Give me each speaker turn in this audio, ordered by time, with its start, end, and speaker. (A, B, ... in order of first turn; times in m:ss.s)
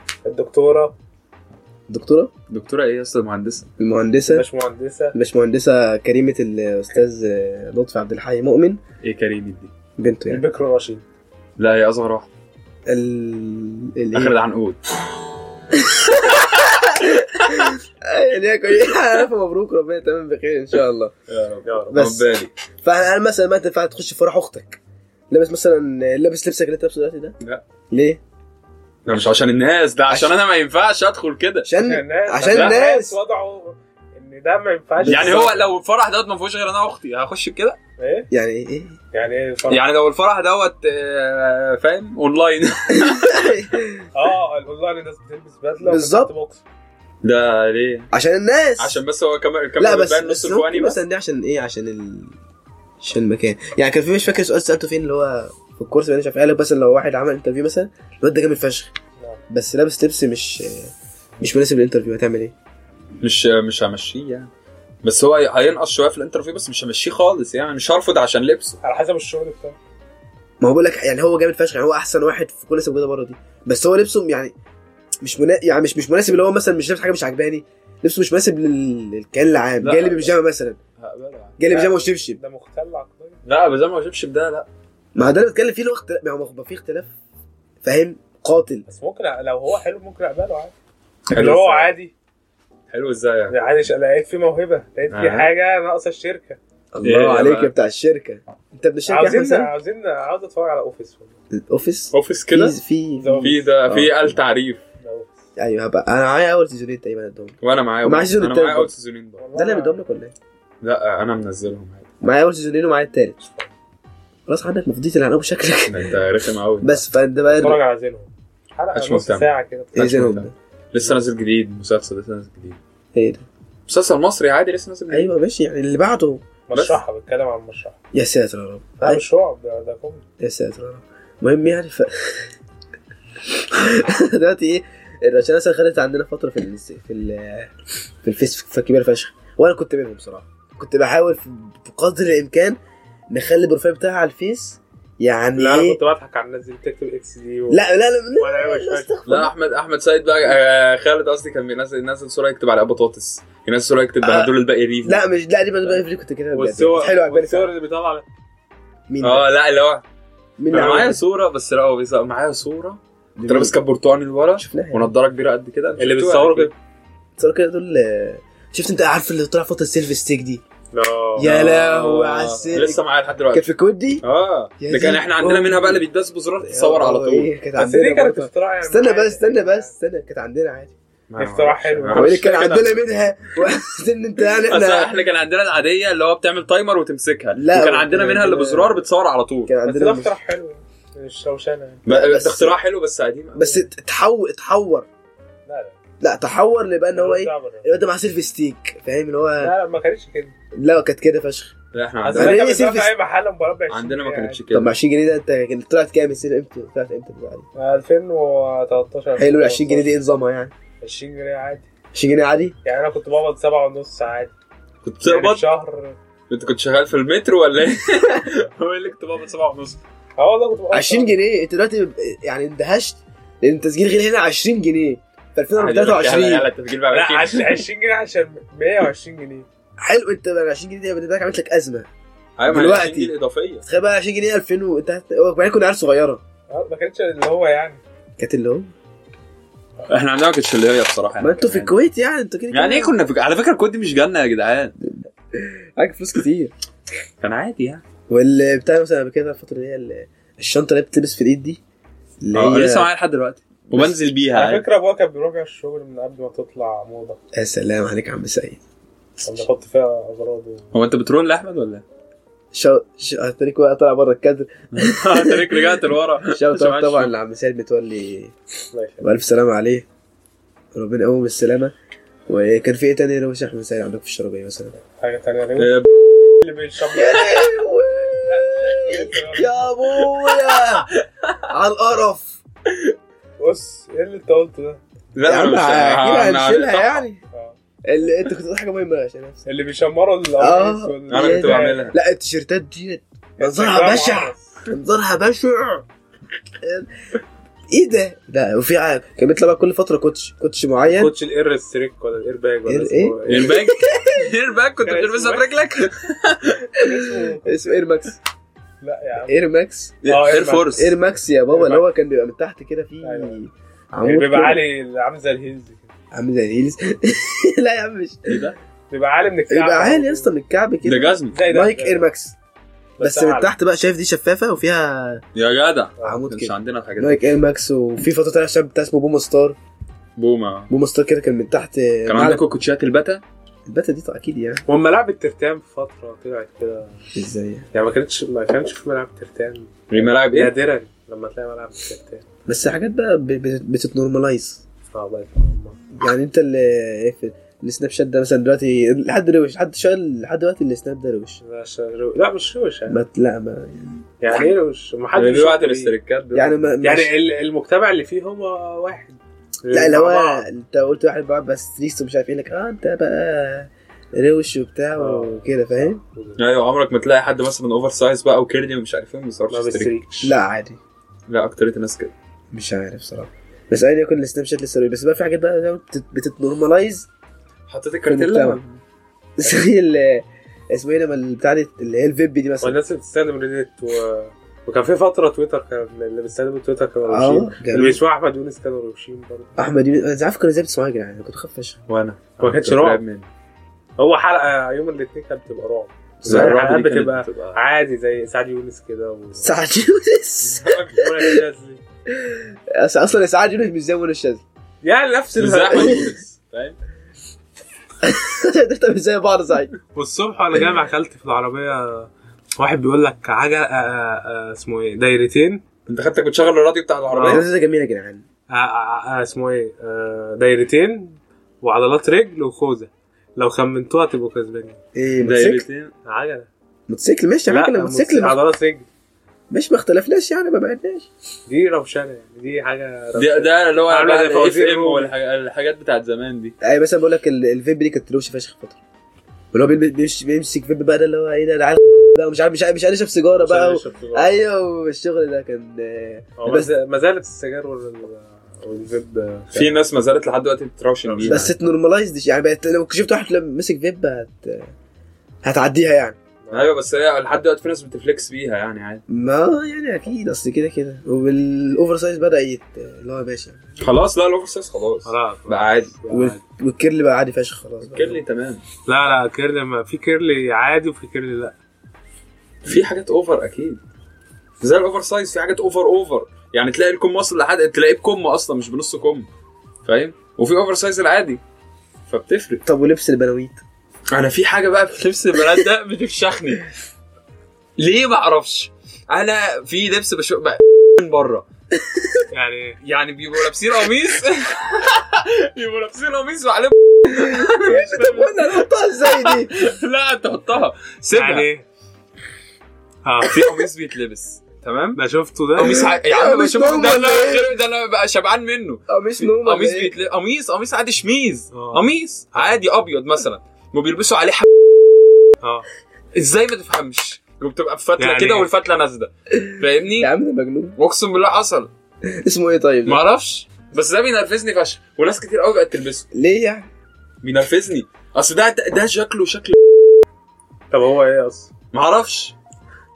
0:00.2-0:00.9 A
0:01.9-0:02.3 B
0:02.5-0:03.7 C
0:03.8-0:04.4 B
0:04.3-0:05.2 A
0:05.1-0:08.8 B
0:09.0-0:09.7 C
0:10.0-0:10.4 B
0:10.3-0:11.0 A
0:11.6-0:12.3 C
0:12.9-0:14.4 B
0:14.1-0:14.8 C
0:15.8-0:21.1 B
0:21.3-0:22.5 C
0:21.7-0:22.0 A
0:21.9-0:22.2 B
0:22.8-0:27.4 B
0:27.9-0:28.2 B
0:29.1-0:31.7 C
0:31.6-0:33.2 B
0:31.8-0:35.5 A
0:32.5-0:32.8 C
0:35.0-0:35.5 B
0:35.0-0:37.8 C
0:38.0-0:38.3 A
0:38.3-0:39.0 B
0:39.1-0:39.8 A
0:39.7-0:43.6 C
0:43.0-0:44.0 B
0:44.1-0:46.6 A
0:45.8-0:46.3 B
0:47.2-0:48.1 C
0:48.1-0:49.0 B
0:48.8-0:51.0 C
0:49.8-0:52.4 B
0:53.0-0:58.9 B
0:59.5-1:02.5 B
1:03.2-1:04.5 C
1:05.0-1:08.8 C
1:08.8-1:09.8 A
1:10.6-1:14.5 B
1:15.2-1:20.8 B
1:19.8-1:20.4 C
1:21.0-1:21.6 C
1:21.6-1:22.4 B
1:21.7-1:23.4 A
1:23.4-1:24.7 C
1:25.2-1:27.1 B
1:27.8-1:28.8 B
1:28.9-1:30.8 A
1:31.3-1:31.9 C
1:31.3-1:32.1 A
1:32.9-1:33.6 C
1:33.5-1:36.6 A
1:35.1-1:35.5 C
1:36.9-1:39.7 B
1:37.0-1:37.7 C
1:39.1-1:41.4 A
1:41.5-1:44.2 B
1:42.1-1:42.8 C
1:43.2-1:43.7 A
1:43.4-1:44.8 C
1:45.0-1:45.4 A
1:45.6-1:48.9 B
1:47.6-1:49.4 C
1:49.4-1:50.0 A
1:49.6-1:50.4 B
1:50.8-1:52.1 C
1:52.2-1:53.4 B
1:54.5-1:56.2 B
1:55.9-1:57.0 C
1:56.8-1:57.8 B
1:57.5-2:00.1 A
1:58.9-2:02.8 C
2:00.0-2:00.5 B
2:03.2-2:03.4 B
2:03.9-2:05.3 C
2:05.1-2:06.4 B
2:06.7-2:08.0 A
2:06.7-2:07.0 C
2:08.1-2:09.2 B
2:09.0-2:10.2 A
2:10.4-2:12.5 B
2:13.7-2:17.7 B
2:18.2-2:22.8 B
2:23.3-2:26.0 B
2:25.6-2:27.8 A
2:27.7-2:29.5 B
2:28.4-2:29.1 A
2:29.3-2:35.2 C
2:34.2-2:34.5 B
2:35.0-2:37.7 B
2:36.5-2:38.2 A
2:39.1-2:39.5 B
2:39.2-2:40.0 C
2:40.6-2:41.2 B
2:40.7-2:46.7 C
2:40.8-2:41.0 A
2:43.4-2:43.8 B
2:44.6-2:45.1 B
2:46.0-2:46.7 A
2:47.4-2:50.6 B
2:50.9-2:51.5 A
2:51.4-2:53.0 B
2:51.4-2:53.7 C
2:53.5-2:54.2 B
2:54.2-2:57.5 C
2:54.8-2:56.0 B
2:56.6-3:00.9 B
2:57.8-2:59.9 A
3:01.3-3:03.0 C
3:01.4-3:02.6 A
3:02.1-3:05.1 B
3:04.6-3:09.7 C
3:07.6-3:09.0 B
3:09.7-3:10.3 B
3:09.9-3:12.0 A
3:12.0-3:13.8 C
3:12.1-3:12.8 B
3:13.6-3:15.1 B
3:15.7-3:16.0 A
3:16.2-3:19.7 B
3:17.1-3:18.0 A
3:19.6-3:20.6 A
3:20.8-3:21.7 B
3:21.9-3:22.6 C
3:22.2-3:24.6 A
3:22.3-3:23.1 B
3:23.9-3:25.0 C
3:24.7-3:27.7 B
3:27.8-3:30.1 A
3:29.4-3:30.7 B
3:31.0-3:31.9 A
3:32.1-3:32.8 B
3:32.8-3:34.5 A
3:35.0-3:35.6 C
3:35.2-3:36.2 A
3:36.5-3:40.0 C
3:40.4-3:41.4 A
3:40.9-3:46.7 B
3:45.8-3:47.8 C
3:47.1-3:49.7 A
3:50.0-3:52.1 B
3:52.6-3:53.8 C
3:52.7-3:53.3 B
3:53.8-3:56.4 B
3:56.7-3:58.0 A
3:58.4-3:58.9 B
4:00.0-4:02.0 C
4:01.4-4:03.1 B
4:02.7-4:04.9 C
4:05.0-4:06.7 B
4:07.4-4:08.0 C
4:08.3-4:11.8 B
4:12.4-4:13.1 B
4:12.5-4:14.8 C
4:14.5-4:17.4 A
4:17.5-4:18.8 B
4:19.4-4:20.9 A
4:20.9-4:22.0 C
4:22.7-4:26.0 B
4:24.9-4:27.3 C
4:26.5-4:28.5 B
4:28.9-4:29.2 A
4:29.2-4:30.1 B
4:30.9-4:31.9 B
4:32.5-4:35.0 B
4:35.2-4:36.0 A
4:35.8-4:36.1 C
4:36.6-4:37.8 A
4:37.1-4:41.1 B
4:38.5-4:39.9 A
4:40.4-4:41.6 C
4:41.7-4:42.6 B
4:42.9-4:43.1 C
4:43.6-4:45.0 A
4:45.3-4:47.3 C
4:45.4-4:47.4 B
4:47.5-4:47.8 A
4:48.1-4:49.6 B
4:49.7-4:52.0 A
4:50.6-4:56.0 B
4:51.3-4:52.2 C
4:53.6-4:54.7 A
4:56.8-4:57.1 B
4:57.9-5:01.3 B
5:01.1-5:03.8 A
5:02.9-5:04.5 B
5:03.5-5:06.8 C
5:05.0-5:05.7 A
5:07.0-5:07.9 A
5:07.1-5:08.4 B
5:09.0-5:09.6 A
5:09.5-5:10.2 B
5:10.2-5:11.1 C
5:10.2-5:11.0 A
5:11.0-5:14.8 B
5:11.7-5:12.1 A
5:13.2-5:13.6 A
5:14.2-5:16.1 A
5:16.3-5:18.6 B
5:18.5-5:18.8 C
5:19.1-5:20.5 A
5:19.7-5:22.6 B
5:21.0-5:21.6 C
5:21.5-5:22.3 A
5:23.2-5:23.7 A
5:23.2-5:25.4 B
5:25.6-5:27.4 C
5:26.2-5:29.8 B
5:30.4-5:30.9 C
5:30.9-5:32.6 B
5:32.3-5:33.4 C
5:33.9-5:34.8 B
5:34.9-5:37.2 A
5:37.3-5:37.9 B
5:37.9-5:42.4 A
5:40.1-5:40.7 C
5:42.7-5:44.8 B
5:45.1-5:46.0 A
5:46.2-5:51.6 B
5:51.6-5:53.2 A
5:53.1-5:54.7 B
5:54.4-5:56.1 A
5:55.3-5:56.8 C
5:56.5-5:57.3 B
5:57.0-6:00.7 A
5:59.9-6:06.2 B
6:05.2-6:06.6 A
6:06.6-6:10.1 C
6:09.7-6:10.6 A
6:10.4-6:11.0 B
6:11.5-6:12.3 C
6:12.7-6:17.3 B
6:17.9-6:19.0 C
6:18.3-6:18.8 B
6:19.6-6:23.0 B
6:22.8-6:29.8 A
6:27.3-6:28.2 B
6:29.8-6:32.0 B
6:32.1-6:33.5 C
6:32.6-6:33.2 A
6:34.2-6:39.8 A
6:36.4-6:37.8 C
6:36.5-6:36.8 B
6:39.6-6:41.6 B
6:40.6-6:41.2 C
6:41.1-6:42.0 A
6:42.4-6:44.6 B
6:45.0-6:46.3 A
6:45.6-6:47.0 C
6:48.2-6:49.9 B
6:50.2-6:55.8 A
6:56.1-6:57.7 C
6:57.3-6:57.7 A
6:57.5-6:58.4 B
6:58.7-7:05.0 A
7:05.2-7:05.8 B
7:05.4-7:06.1 C
7:06.3-7:06.7 A
7:07.1-7:08.6 B
7:07.7-7:09.1 A
7:09.7-7:11.3 B
7:11.7-7:15.3 A
7:13.4-7:16.8 C
7:16.8-7:19.0 B
7:19.7-7:26.9 B
7:23.6-7:24.5 A
7:26.6-7:29.9 A
7:29.7-7:31.7 C
7:31.2-7:31.7 A
7:31.4-7:34.9 B
7:35.6-7:36.4 B
7:36.6-7:36.9 A
7:36.7-7:39.2 C
7:39.3-7:44.0 B
7:44.0-7:46.1 C
7:45.3-7:46.6 A
7:46.3-7:48.4 B
7:48.1-7:48.8 C
7:49.1-7:51.8 A
7:52.8-7:54.0 C
7:54.8-7:59.5 C
8:00.0-8:01.6 C
8:02.3-8:02.8 C
8:02.8-8:03.8 B
8:04.3-8:06.8 C
8:08.0-8:11.6 C
8:12.0-8:12.4 B
8:12.5-8:13.0 A
8:13.0-8:21.7 C
8:17.3-8:19.7 B
8:21.4-8:21.8 A
8:23.2-8:23.6 A
8:23.4-8:25.2 C
8:25.2-8:26.0 A
8:25.8-8:34.7 C
8:25.8-8:27.7 B
8:29.1-8:30.1 B
8:31.7-8:32.8 A
8:35.6-8:35.9 A
8:36.3-8:40.3 C
8:38.2-8:38.7 A
8:40.2-8:41.0 B
8:41.0-8:41.9 C
8:42.3-8:43.2 B
8:43.0-8:46.3 C
8:46.3-8:46.9 B
8:47.4-8:49.8 C
8:50.9-8:51.7 A
8:51.9-8:52.6 C